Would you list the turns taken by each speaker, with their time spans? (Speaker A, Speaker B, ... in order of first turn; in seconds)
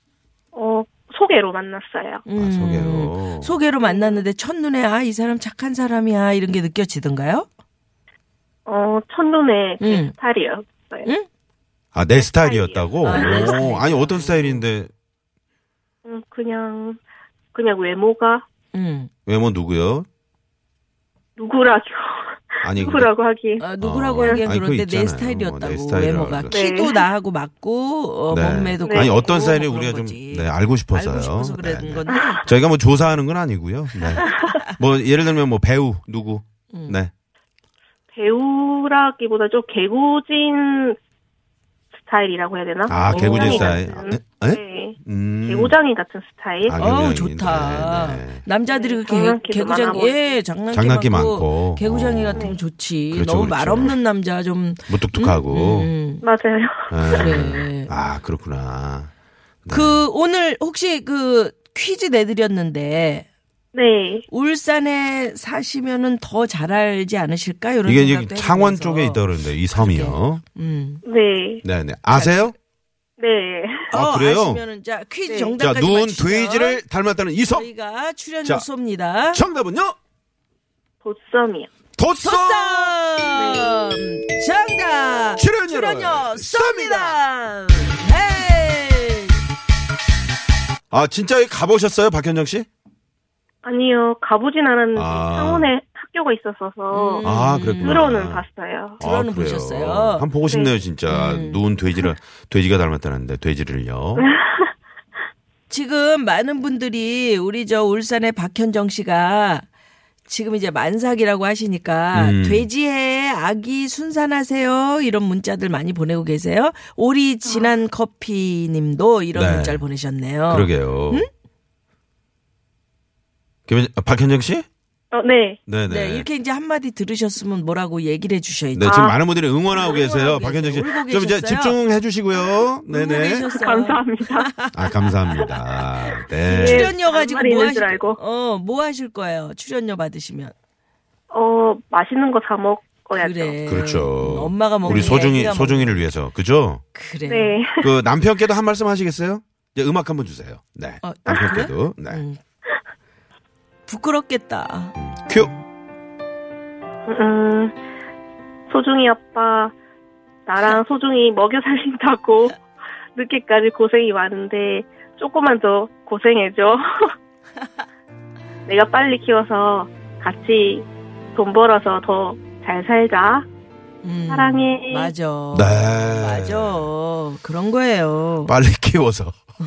Speaker A: 0.5-2.2, 3.8-4.2, 8.7-11.1, 12.2-13.6, 16.1-17.0, 17.5-18.4, 21.4-23.7, 26.5-27.1, 28.8-29.3, 38.1-41.0, 42.0-46.8, 48.7-50.4, 56.2-57.3, 63.7-64.3, 71.0-71.6, 73.2-73.8, 75.3-75.6, 81.0-81.7, 83.3-83.9, 93.6-97.3, 97.8-99.0, 100.5-100.7, 104.2-104.7, 117.5-117.7, 125.1-125.6, 128.8-129.2, 133.3-134.5, 136.6-138.2, 141.3-143.6, 144.9-145.3, 147.3-147.9, 151.3-151.6, 157.1-157.8, 158.7-159.7, 160.5-162.6, 163.2-166.8, 168.7-173.5, 174.3-175.1
Speaker B: 2.3-7.5, 9.8-10.1, 13.0-14.7, 18.7-19.1, 23.6-32.5, 34.0-34.7, 36.7-37.0, 42.9-43.8, 46.7-56.2, 57.1-57.9, 59.7-63.3, 64.3-71.0, 72.1-72.5, 73.9-76.8, 77.5-79.4, 82.2-89.4, 96.9-98.0, 99.0-100.3, 101.1-101.7, 105.7-109.7, 110.3-121.3, 125.9-129.1, 129.7-131.8, 132.9-135.6, 136.4-140.5, 143.2-146.1, 146.9-147.6, 151.0-152.4, 153.9-155.6, 174.0-178.5
Speaker C: 2.4-3.6, 11.9-14.9, 19.3-20.1, 22.6-23.1, 23.8-26.6, 28.3-37.1, 42.9-45.8, 46.6-48.4, 50.7-52.5, 53.1-54.0, 54.9-55.9, 56.9-59.1, 59.6-60.0, 67.8-70.4, 71.6-72.5, 73.9-74.6, 75.6-77.7, 79.3-80.0, 82.0-83.0, 85.4-87.2, 90.9-92.7, 95.0-95.7, 97.2-98.5, 99.0-104.3, 112.1-112.7, 119.3-119.9, 120.5-121.3, 123.7-124.7, 125.7-126.3, 128.7-133.5, 134.7-136.9, 143.6-146.8, 147.8-152.2, 155.0-155.5, 175.5-176.9, 178.4-179.4